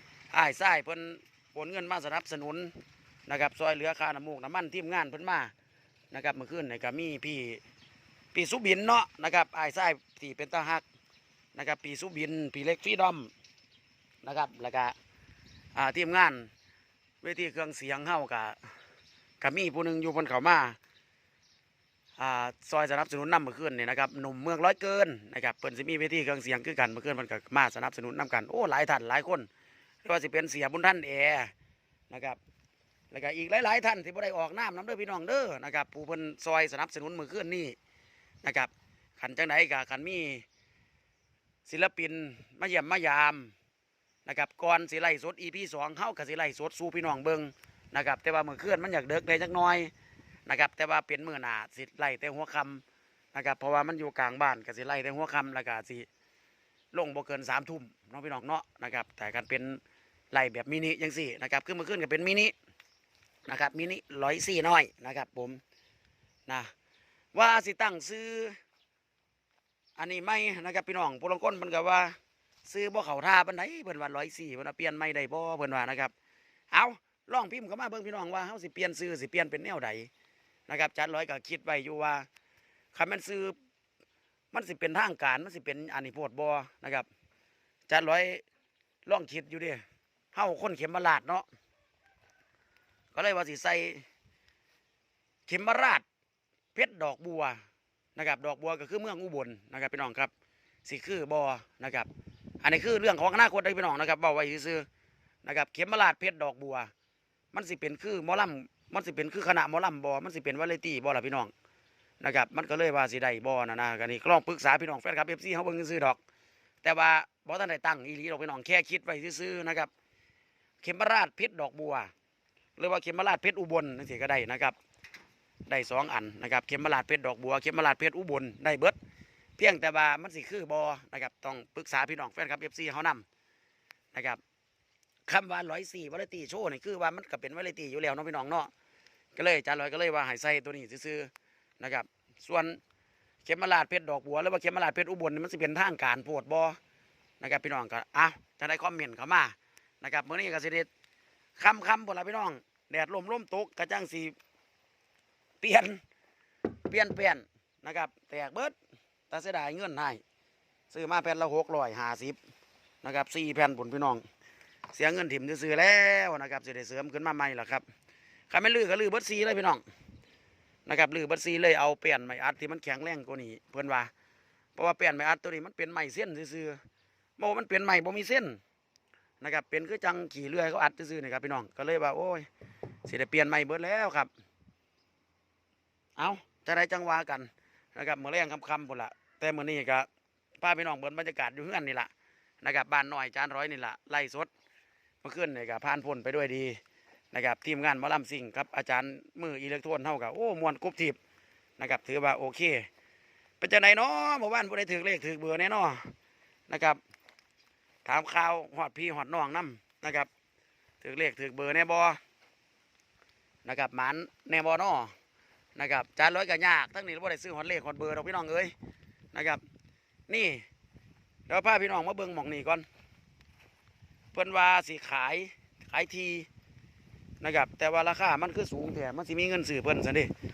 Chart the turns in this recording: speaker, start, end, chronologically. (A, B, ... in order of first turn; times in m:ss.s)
0:00.3-0:02.7 A
0:03.3-0:05.5 A
0:06.1-0:07.6 A
0:08.3-0:10.8 A
0:11.6-0:13.3 A
0:14.2-0:15.0 A
0:15.8-0:16.5 A
0:17.2-0:18.6 A
0:19.4-0:20.8 A
0:22.2-0:29.5 A
0:30.0-0:31.5 A
0:32.1-0:32.4 A
0:33.1-0:37.8 A
0:38.4-0:40.4 A
0:41.7-0:43.5 A
0:44.3-0:49.9 A
0:50.5-0:52.8 A
0:53.3-0:56.1 A
0:56.9-0:59.8 A
1:00.3-1:02.5 A
1:03.5-1:05.6 A
1:07.3-1:08.6 A
1:10.0-1:16.1 A
1:16.7-1:20.1 A
1:20.7-1:22.3 A
1:22.9-1:23.5 A
1:24.5-1:27.1 A
1:27.9-1:28.4 A
1:29.1-1:31.4 A
1:33.1-1:34.1 A
1:35.5-1:36.0 A
1:36.8-1:37.6 A
1:38.2-1:40.3 A
1:40.9-1:42.1 A
1:42.6-1:44.9 A
1:45.4-1:46.9 A
1:47.5-1:51.5 A
1:52.2-1:56.2 A
1:56.8-1:59.9 A
2:00.8-2:02.1 A
2:02.8-2:04.8 A
2:05.7-2:09.0 A
2:09.6-2:13.2 A
2:14.1-2:14.4 A
2:15.3-2:18.7 A
2:19.4-2:22.8 A
2:23.4-2:26.8 A
2:27.4-2:30.9 A
2:31.6-2:34.4 A
2:35.6-2:36.0 A
2:36.7-2:38.8 A
2:39.3-2:40.2 A
2:40.9-2:42.4 A
2:43.0-2:44.2 A
2:44.9-2:47.8 A
2:48.5-2:49.8 A
2:50.9-2:54.1 A
2:54.8-2:56.8 A
2:57.4-2:58.6 A
2:59.4-3:02.5 A
3:03.1-3:04.3 A
3:06.2-3:10.1 A
3:10.6-3:12.1 A
3:12.6-3:14.5 A
3:15.2-3:16.8 A
3:17.3-3:21.2 A
3:21.8-3:22.9 A
3:23.6-3:26.1 A
3:26.7-3:27.0 A
3:28.0-3:30.3 A
3:31.0-3:32.2 A
3:33.6-3:35.1 A
3:35.8-3:38.7 A
3:39.3-3:39.6 A
3:40.3-3:40.6 A
3:41.5-3:42.9 A
3:44.3-3:46.5 A
3:47.4-3:50.3 A